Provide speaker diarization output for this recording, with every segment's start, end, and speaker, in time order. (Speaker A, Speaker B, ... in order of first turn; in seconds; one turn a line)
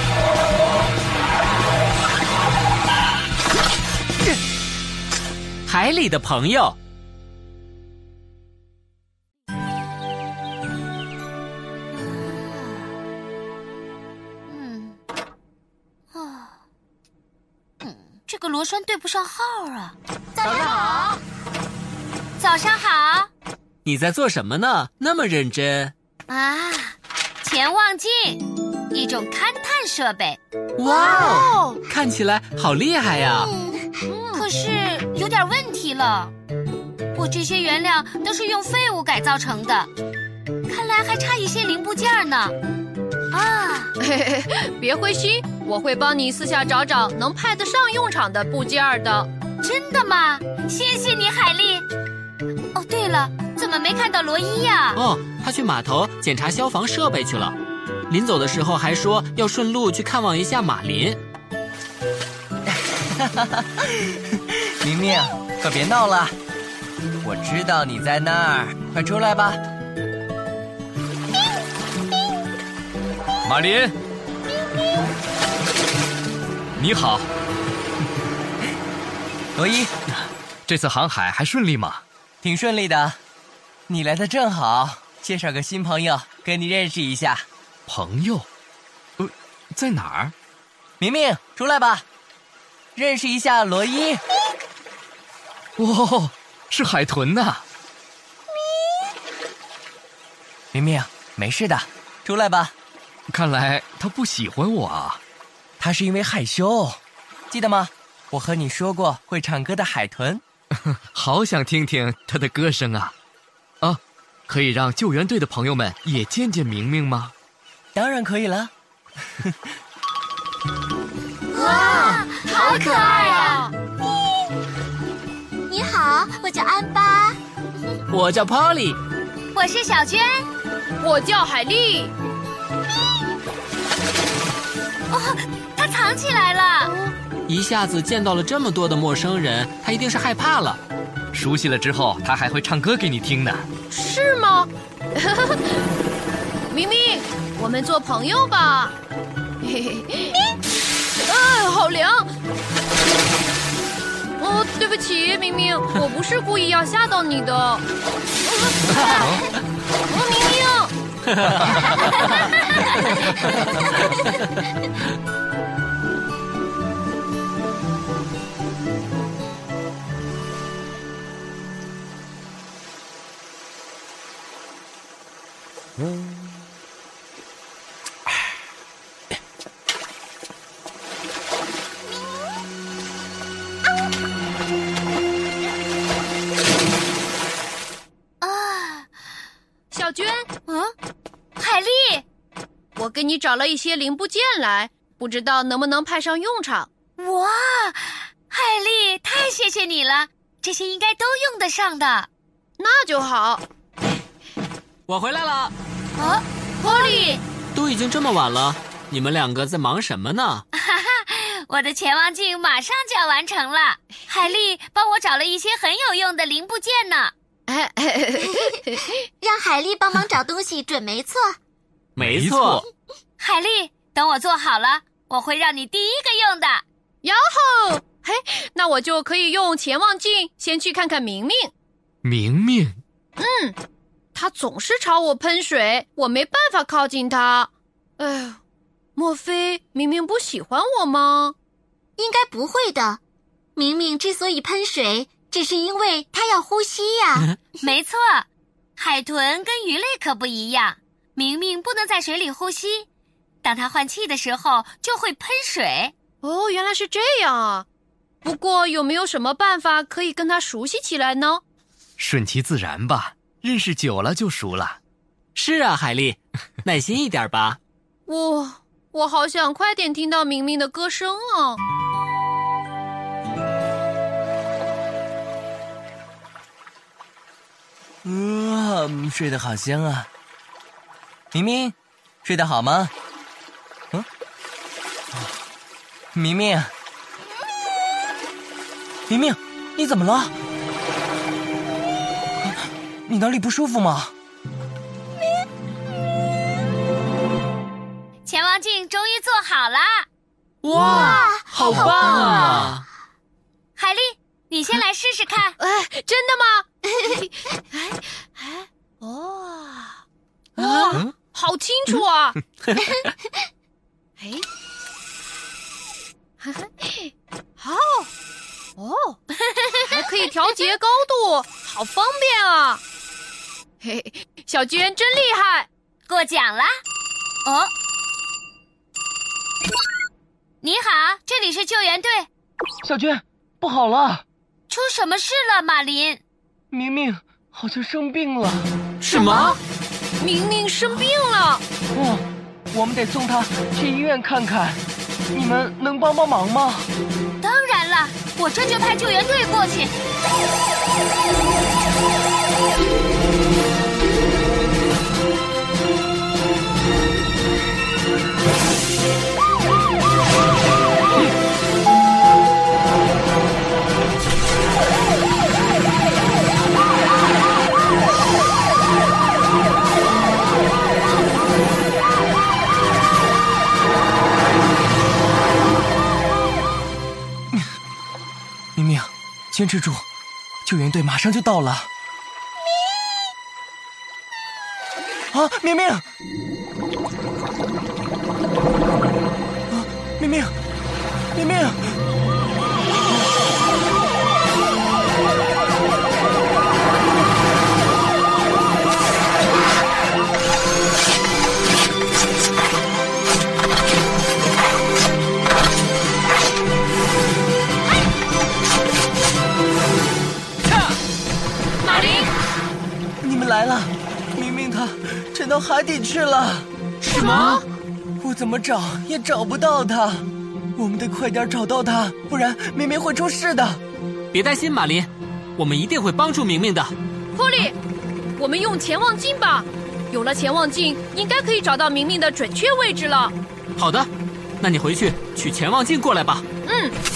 Speaker A: 5.7-6.8
Speaker B: 11.9-12.9
Speaker B: 14.5-15.0
Speaker B: 16.1-16.5
Speaker B: 17.8-19.9
Speaker C: 20.3-21.1
Speaker B: 22.4-23.3
Speaker A: 23.8-25.9
Speaker B: 26.3-30.4
Speaker A: 30.8-33.5
Speaker C: 30.8-31.8
Speaker C: 33.3-34.4
Speaker B: 34.3-36.3
Speaker B: 37.1-39.9
Speaker B: 40.7-42.5
Speaker B: 43.3-43.9
Speaker D: 44.0-49.3
Speaker B: 49.6-51.8
Speaker B: 52.7-55.0
Speaker A: 54.9-57.5
Speaker A: 58.1-61.2
Speaker E: 62.7-66.3
Speaker E: 67.2-69.6
Speaker F: 73.4-73.9
Speaker F: 76.8-77.3
Speaker E: 79.5-79.9
Speaker F: 80.7-82.0
Speaker E: 82.4-83.2
Speaker E: 83.9-87.5
Speaker F: 87.9-88.5
Speaker F: 89.2-90.3
Speaker E: 91.0-92.0
Speaker E: 93.0-94.2
Speaker F: 95.8-97.6
Speaker E: 100.7-102.7
Speaker F: 103.3-105.2
Speaker E: 105.8-107.0
Speaker E: 107.5-110.4
Speaker F: 111.1-113.1
Speaker F: 113.8-117.3
Speaker E: 117.9-118.7
Speaker B: 121.5-123.7
Speaker D: 121.5-123.7
Speaker C: 125.7-128.0
Speaker A: 128.1-129.0
Speaker B: 129.5-130.5
Speaker D: 131.0-132.1
Speaker B: 135.1-136.9
Speaker D: 136.8-137.1
Speaker A: 137.5-140.8
Speaker F: 141.3-143.7
Speaker D: 143.9-145.8
Speaker D: 146.7-148.9
Speaker D: 149.6-150.5
Speaker D: 151.2-152.3
Speaker D: 154.4-157.8
Speaker D: 158.4-159.4
Speaker A: 158.9-159.3
Speaker D: 160.1-160.9
Speaker A: 161.3-161.9
Speaker D: 161.8-162.6
Speaker B: 188.4-189.1
Speaker D: 189.9-190.5
Speaker B: 190.7-190.9
Speaker B: 191.6-192.2
Speaker D: 192.9-196.9
Speaker B: 197.2-202.3
Speaker D: 202.8-203.6
Speaker A: 205.1-205.7
Speaker B: 206.2-207.4
Speaker D: 206.8-207.4
Speaker A: 207.7-210.6
Speaker B: 210.7-217.3
Speaker D: 217.7-219.1
Speaker C: 219.4-221.6
Speaker A: 222.2-222.8
Speaker F: 222.2-222.8
Speaker B: 223.4-226.8
Speaker D: 227.2-231.7
Speaker F: 232.2-233.0
Speaker D: 233.4-233.8
Speaker D: 234.3-238.6
Speaker D: 239.2-241.5
Speaker C: 242.2-243.2
Speaker C: 243.8-247.6
Speaker B: 247.8-253.1
Speaker B: 253.6-256.1
Speaker D: 256.4-257.9
Speaker D: 258.4-261.6
Speaker F: 262.2-265.0
Speaker A: 265.5-267.8
Speaker D: 268.3-271.8
Speaker E: 278.2-280.3
Speaker E: 281.5-283.1
Speaker E: 286.3-286.9
Speaker E: 289.3-290.5
Speaker E: 293.3-294.3
Speaker B: 298.4-300.3
Speaker A: 300.8-303.0
Speaker C: 300.9-302.9
Speaker D: 301.9-302.6
Speaker B: 303.9-305.8
Speaker D: 305.8-310.2
Speaker A: 310.8-311.2
Speaker D: 310.8-312.6
Speaker D: 314.4-314.6
Speaker D: 316.6-318.3
Speaker D: 319.0-319.4
Speaker B: 319.6-320.1
Speaker D: 320.1-323.0
Speaker D: 324.0-325.9
Speaker B: 326.3-327.0
Speaker B: 327.6-327.9
Speaker B: 330.8-332.5
Speaker E: 333.0-334.4
Speaker B: 334.9-336.4
Speaker E: 336.9-338.9
Speaker A: 339.3-339.6
Speaker B: 339.3-339.8
Speaker D: 340.4-341.8
Speaker E: 342.1-345.0
Speaker E: 345.5-347.1
Speaker B: 347.6-350.1
Speaker E: 378.9-380.2
Speaker E: 380.8-382.1
Speaker E: 385.5-386.2
Speaker E: 389.9-390.7
Speaker E: 391.5-392.2
Speaker A: 410.9-411.1
Speaker B: 412.0-412.5
Speaker A: 412.1-412.4
Speaker E: 413.4-416.9
Speaker A: 417.2-417.8
Speaker E: 418.4-424.0
Speaker A: 424.5-427.1
Speaker D: 427.5-427.9
Speaker D: 428.6-433.5
Speaker A: 434.0-434.3
Speaker A: 434.8-436.6
Speaker D: 436.8-437.2